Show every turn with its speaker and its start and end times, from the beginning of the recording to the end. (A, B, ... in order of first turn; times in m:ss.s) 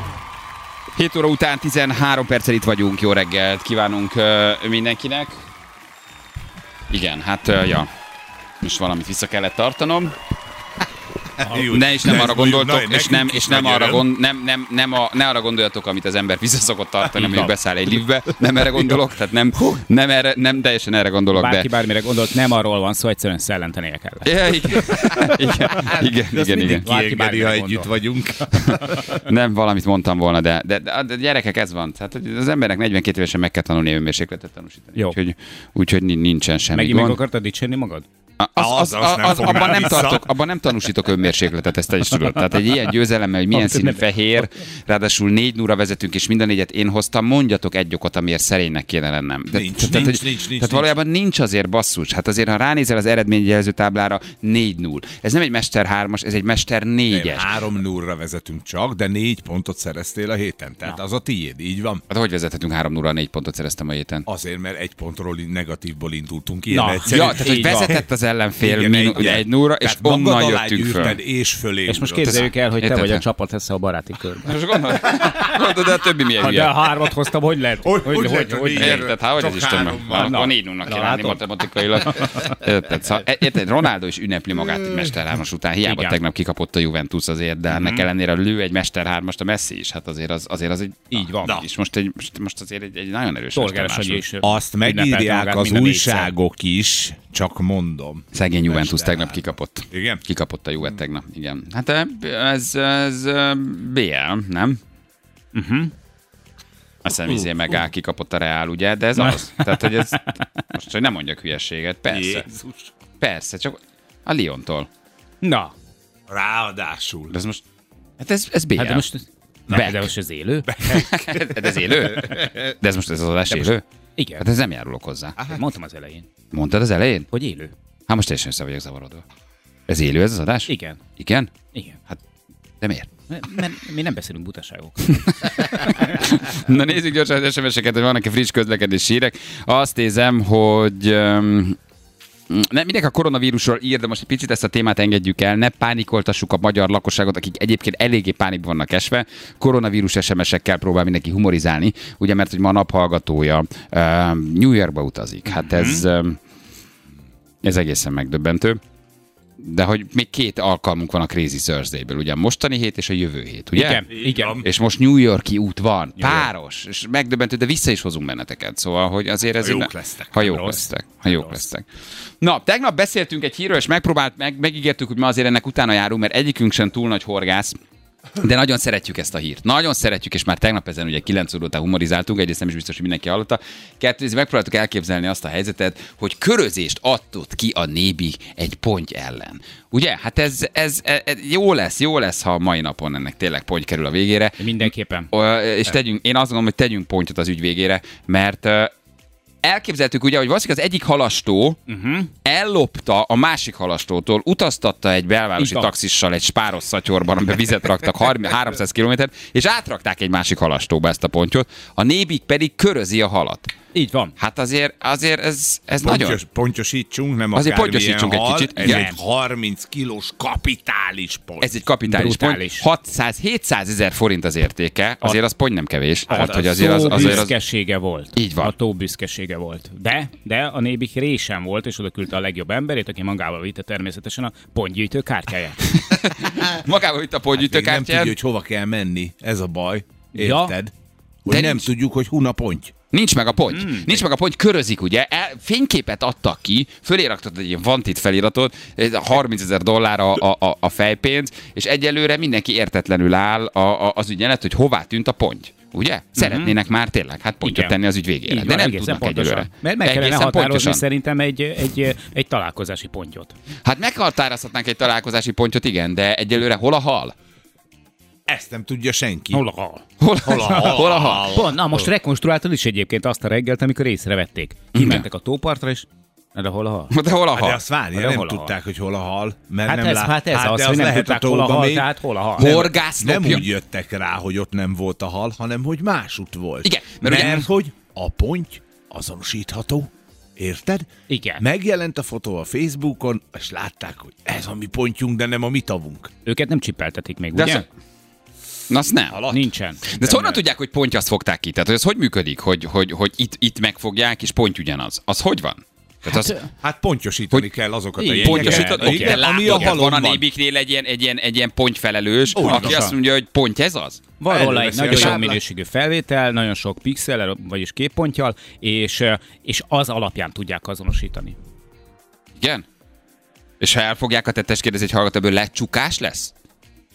0:01.0-0:05.4 A
0:06.9-0:07.9 A
0:08.6-0:10.2 A
0:11.4-0:14.1 B
0:11.5-0:21.7 A
0:17.1-0:17.6 B
0:18.5-0:19.0 B
0:21.3-0:24.3 C
0:24.2-0:26.8 A
0:25.8-0:29.2 B
0:26.7-0:27.9 C
0:29.2-0:37.2 A
0:36.7-0:38.0 C
0:38.4-0:57.5 A
0:38.6-0:40.3 B
0:43.5-0:44.4 C
0:49.5-0:50.9 B
0:57.1-1:02.0 B
1:02.1-1:04.2 A
1:04.2-1:07.9 B
1:06.7-1:08.0 C
1:07.0-1:11.2 A
1:08.6-1:12.4 B
1:11.9-1:14.5 C
1:12.2-1:13.2 A
1:14.4-1:16.7 A
1:16.4-1:19.1 C
1:17.8-1:20.3 B
1:18.8-1:34.2 A
1:20.1-1:21.4 C
1:22.2-1:22.5 C
1:25.8-1:26.2 C
1:27.7-1:28.0 C
1:31.1-1:31.6 C
1:33.5-1:36.3 C
1:34.4-1:40.2 B
1:38.3-1:44.8 A
1:45.5-1:45.9 C
1:47.0-1:50.2 A
1:49.2-1:50.3 C
1:50.7-1:52.5 A
1:52.1-1:52.9 B
1:53.2-1:54.9 A
1:55.4-1:55.7 C
1:56.3-1:57.4 B
1:57.3-1:57.6 A
1:58.2-1:59.0 A
1:58.8-2:01.0 C
1:59.7-2:00.1 A
2:00.7-2:02.4 B
2:00.8-2:03.8 A
2:03.5-2:04.4 C
2:04.4-2:05.4 A
2:05.5-2:06.3 C
2:06.5-2:07.3 A
2:07.3-2:07.7 C
2:08.1-2:09.2 A
2:09.9-2:11.5 A
2:10.7-2:11.0 C
2:11.7-2:12.0 C
2:12.8-2:13.1 A
2:13.3-2:16.0 C
2:15.3-2:21.8 A
2:22.5-2:36.4 A
2:35.5-2:36.0 C
2:37.6-2:38.8 A
2:39.6-2:44.1 A
2:43.7-2:44.6 C
2:44.2-2:44.6 B
2:44.6-2:51.8 A
2:46.2-2:46.5 C
2:49.6-2:50.4 B
2:50.4-2:51.7 C
2:52.4-2:57.8 A
2:58.4-3:18.9 A
3:14.6-3:15.3 C
3:19.6-3:21.8 A
3:21.9-3:22.3 C
3:22.4-3:33.7 A
3:25.6-3:25.9 C
3:33.9-3:34.3 C
3:34.4-3:36.4 A
3:36.0-3:41.8 B
3:37.5-3:39.1 A
3:38.8-3:39.2 C
3:41.6-3:47.5 A
3:42.1-3:42.8 C
3:46.3-3:55.9 C
3:48.3-3:48.7 A
3:55.9-3:58.4 A
3:57.5-4:00.9 B
4:00.3-4:00.8 C
4:01.4-4:02.9 B
4:01.5-4:01.9 A
4:03.1-4:21.0 A
4:03.7-4:04.2 C
4:16.4-4:16.7 C
4:17.6-4:18.0 C
4:18.5-4:23.5 C
4:23.8-4:27.3 A
4:28.5-4:29.6 B
4:29.5-4:37.1 C
4:30.2-4:31.6 A
4:30.5-4:31.8 B
4:34.9-4:35.2 A
4:37.1-4:37.8 A
4:37.5-4:51.1 B
4:38.1-4:38.7 C
4:39.8-4:42.7 C
4:42.6-4:43.7 A
4:46.8-4:47.7 A
4:51.3-4:51.6 C
4:51.6-4:56.3 B
4:56.4-4:57.8 C
4:57.6-4:57.8 A
4:58.9-4:59.4 A
4:59.3-4:59.7 B
4:59.5-5:00.6 C
5:00.1-5:06.6 A
5:06.3-5:06.7 C
5:06.8-5:10.4 B
5:08.2-5:10.0 C
5:08.4-5:14.3 A
5:12.6-5:13.1 B
5:12.6-5:13.1 C
5:14.4-5:21.6 C
5:14.5-5:15.6 B
5:15.1-5:15.4 A
5:22.6-5:22.8 A
5:23.8-5:26.5 A